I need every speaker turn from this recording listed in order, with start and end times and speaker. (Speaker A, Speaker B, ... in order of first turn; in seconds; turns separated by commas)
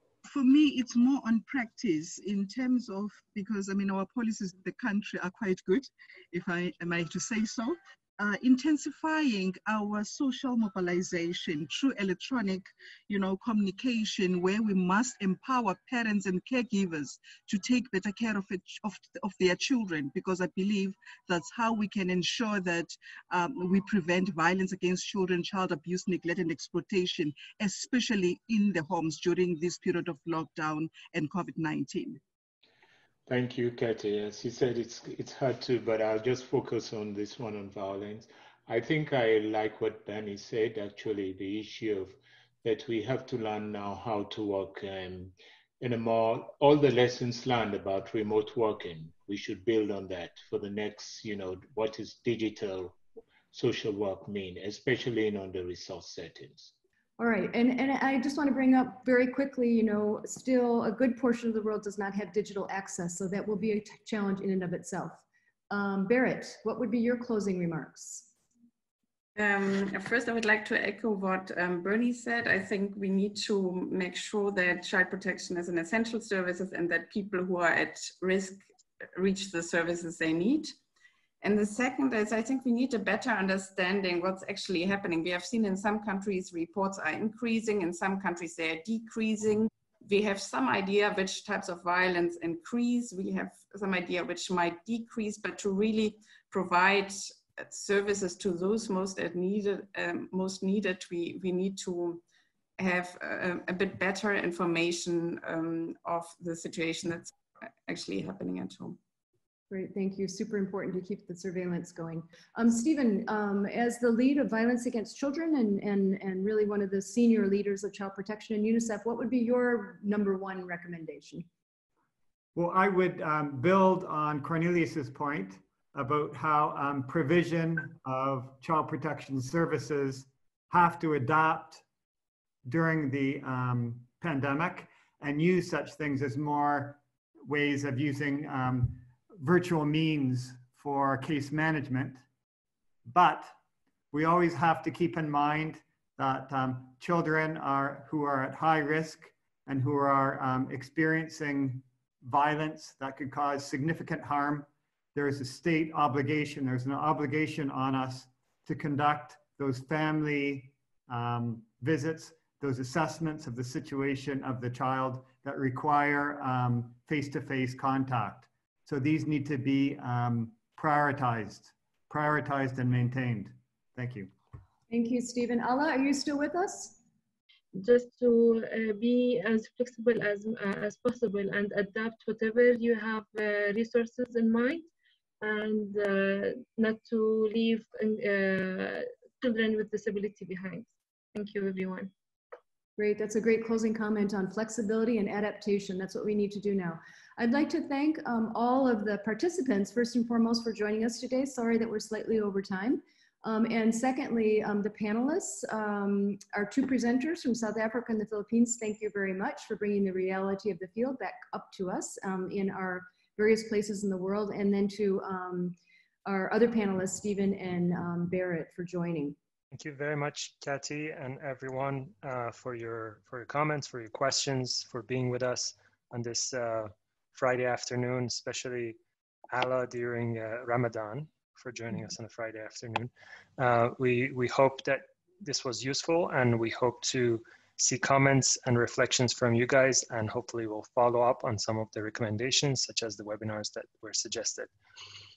Speaker A: 0.2-32.2, Speaker B: 33.3-53.0, Speaker B: 53.5-56.7, Speaker C: 57.2-68.3, Speaker D: 69.3-78.6, Speaker D: 79.2-80.8, Speaker D: 81.4-102.2, Speaker D: 102.8-107.3, Speaker D: 107.9-109.0, Speaker C: 109.7-121.5, Speaker E: 122.5-131.8, Speaker E: 132.6-142.2, Speaker E: 143.0-143.5, Speaker E: 144.1-174.3, Speaker C: 174.9-177.0, Speaker F: 177.7-184.9, Speaker F: 185.4-192.1, Speaker C: 193.0-219.4, Speaker G: 219.7-229.0, Speaker G: 229.5-244.7